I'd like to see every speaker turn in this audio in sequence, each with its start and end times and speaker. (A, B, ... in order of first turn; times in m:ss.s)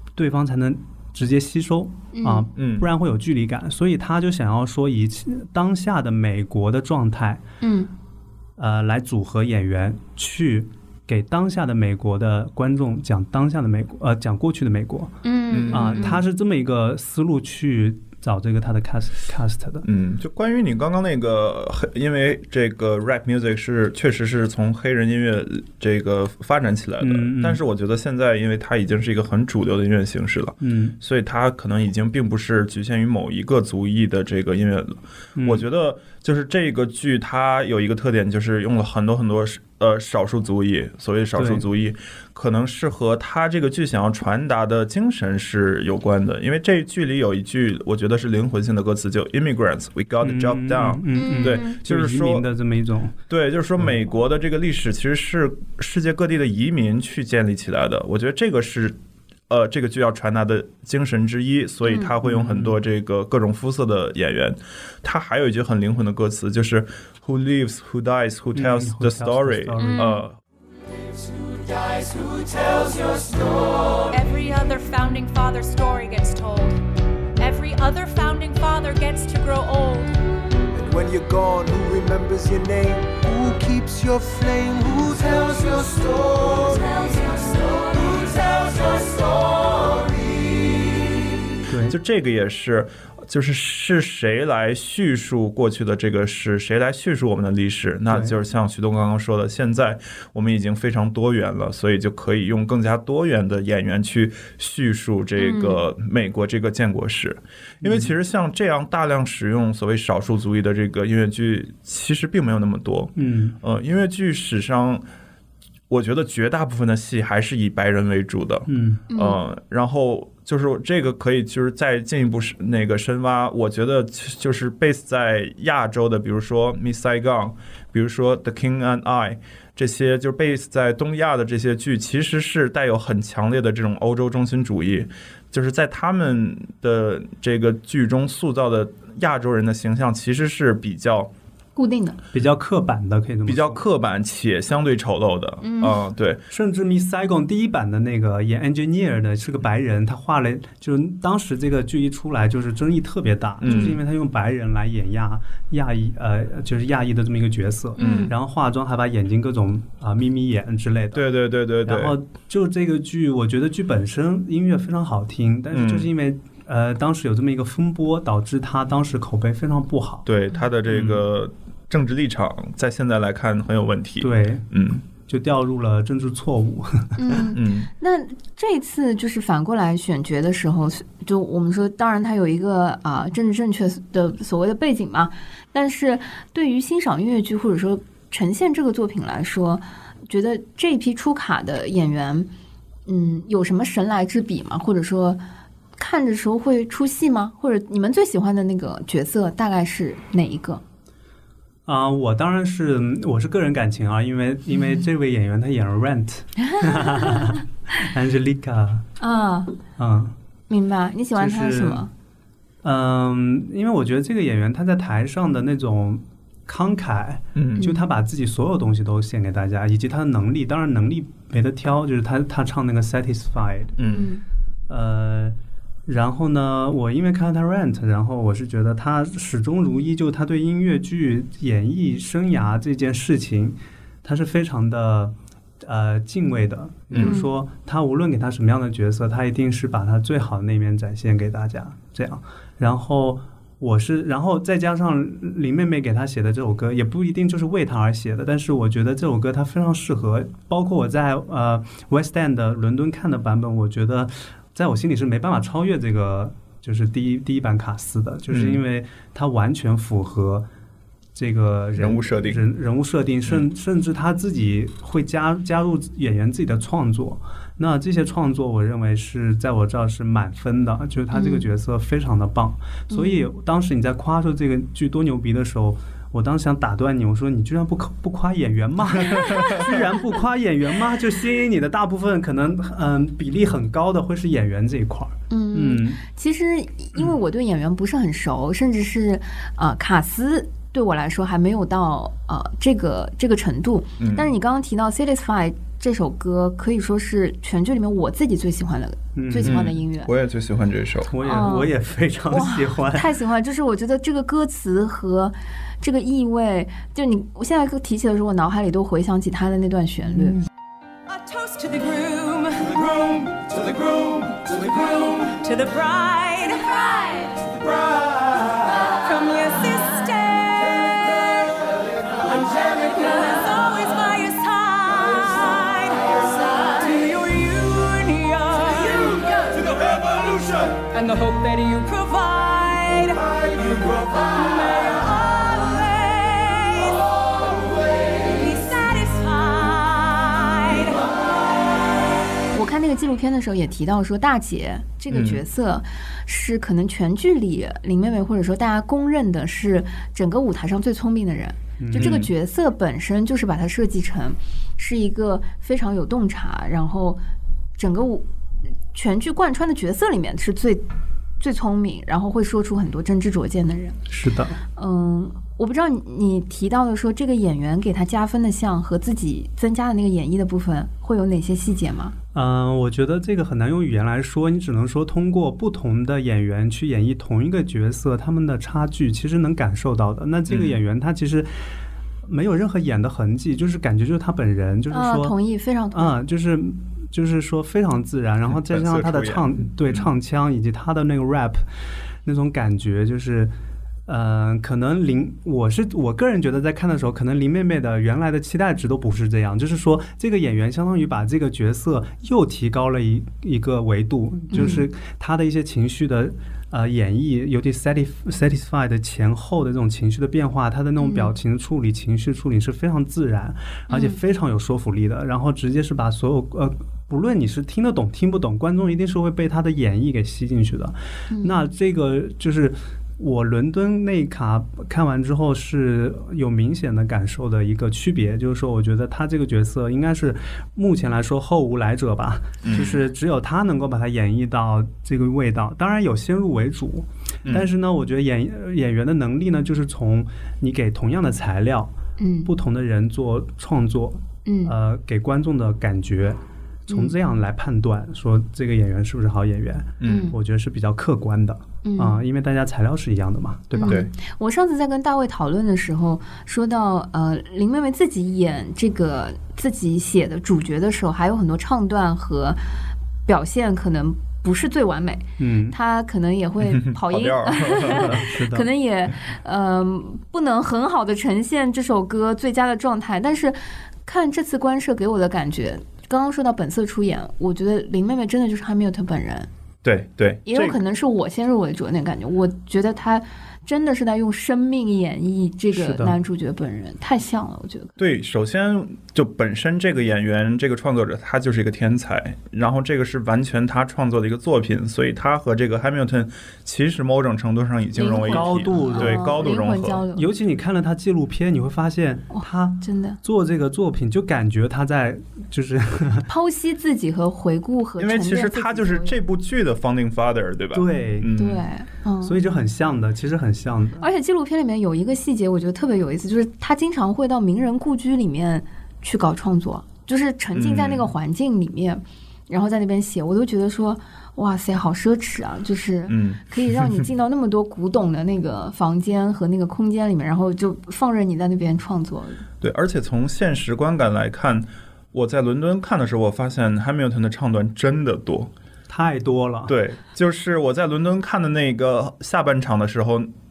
0:00.2-0:07.4 A
0:02.1-0:02.5 B
0:02.6-0:02.8 C
0:07.6-0:07.9 B
0:08.6-0:15.2 A
0:15.2-0:16.2 B
0:15.5-0:16.2 C
0:15.7-0:19.8 A
0:19.8-0:52.4 C
0:27.0-0:27.6 A
0:30.6-0:31.0 A
0:35.4-0:35.6 A
0:41.4-0:41.6 A
0:50.2-0:53.2 A
0:51.1-0:51.8 B
0:53.3-0:59.0 C
0:59.5-1:10.4 C
1:01.8-1:02.1 B
1:02.2-1:02.8 A
1:08.5-1:10.1 A
1:09.8-1:10.2 B
1:11.4-1:14.0 D
1:14.1-1:16.8 E
1:17.4-1:20.2 E
1:20.7-1:30.8 D
1:31.7-1:32.0 A
1:31.8-1:55.0 C
1:38.1-1:38.4 A
1:45.4-1:45.8 B
1:47.8-1:48.1 A
1:53.2-1:53.6 A
1:55.9-2:21.3 C
1:58.7-1:59.0 A
1:59.1-1:59.4 B
2:21.8-2:22.2 B
2:22.3-2:23.8 A
2:23.4-2:26.4 C
2:25.6-2:26.0 B
2:26.5-2:41.3 A
2:33.6-2:34.0 C
2:33.7-2:34.0 B
2:38.0-2:38.3 B
2:38.0-2:38.3 C
2:41.1-2:42.1 C
2:41.8-2:50.2 A
2:45.7-2:46.1 C
2:50.2-2:55.0 C
2:50.9-2:51.2 A
2:54.2-2:57.4 A
2:57.2-3:12.5 B
2:57.5-2:57.9 C
3:13.1-3:15.4 B
3:16.0-3:20.8 B
3:21.9-3:29.1 A
3:27.0-3:27.6 B
3:29.2-3:29.8 B
3:30.0-3:30.3 A
3:30.7-3:32.1 B
3:31.4-3:32.0 A
3:32.8-3:44.0 A
3:37.6-3:37.8 C
3:37.8-3:38.0 B
3:44.0-3:44.3 C
3:44.1-3:44.4 B
3:44.9-4:20.7 A
3:57.2-3:57.5 B
4:18.5-4:18.8 C
4:21.3-4:46.2 A
4:22.0-4:22.6 C
4:31.3-4:31.6 B
4:33.1-4:33.4 B
4:39.3-4:40.0 B
4:45.5-5:00.3 B
4:54.2-4:54.5 C
4:59.4-4:59.8 A
4:59.6-5:01.3 C
5:01.3-5:03.3 A
5:01.4-5:01.9 B
5:02.5-5:10.6 B
5:11.3-5:41.3 E
5:42.7-5:57.4 B
5:45.3-5:45.6 C
5:52.0-5:52.4 A
5:52.2-5:52.5 C
5:58.0-5:58.5 B
5:59.1-6:01.0 B
6:01.6-6:04.2 B
6:04.3-6:04.8 A
6:04.9-6:12.3 B
6:12.5-6:21.7 A
6:20.7-6:21.0 C
6:22.4-6:25.5 A
6:25.1-6:26.3 B
6:26.1-6:31.8 A
6:28.7-6:30.3 C
6:32.4-6:33.7 A
6:34.3-7:22.1 A
6:44.7-6:45.0 B
6:51.2-6:51.5 B
6:54.1-6:54.4 B
7:01.5-7:01.8 B
7:12.8-7:13.3 C
7:22.4-7:22.7 B
7:22.6-7:34.2 A
7:24.6-7:24.9 B
7:30.2-7:30.5 C
7:30.2-7:30.5 B
7:32.0-7:32.4 B
7:33.9-7:42.8 B
7:34.0-7:34.3 C
7:43.4-7:59.7 B
7:45.6-7:46.0 A
7:46.8-7:48.4 C
7:48.3-7:48.9 A
8:00.0-8:01.0 C
8:00.6-8:08.1 B
8:05.9-8:06.4 A
8:08.2-8:20.2 C
8:18.2-8:20.4 B
8:18.5-8:19.6 A
8:20.3-8:26.5 A
8:22.5-8:23.4 B
8:26.5-8:29.4 B
8:28.2-8:31.8 C
8:30.9-8:31.5 A
8:31.5-8:32.6 B
8:32.4-8:34.3 A
8:34.2-8:52.6 B
8:40.7-8:41.3 C
8:46.3-8:47.2 C
8:52.8-8:58.7 C
8:59.1-9:00.0 A
8:59.9-9:03.5 C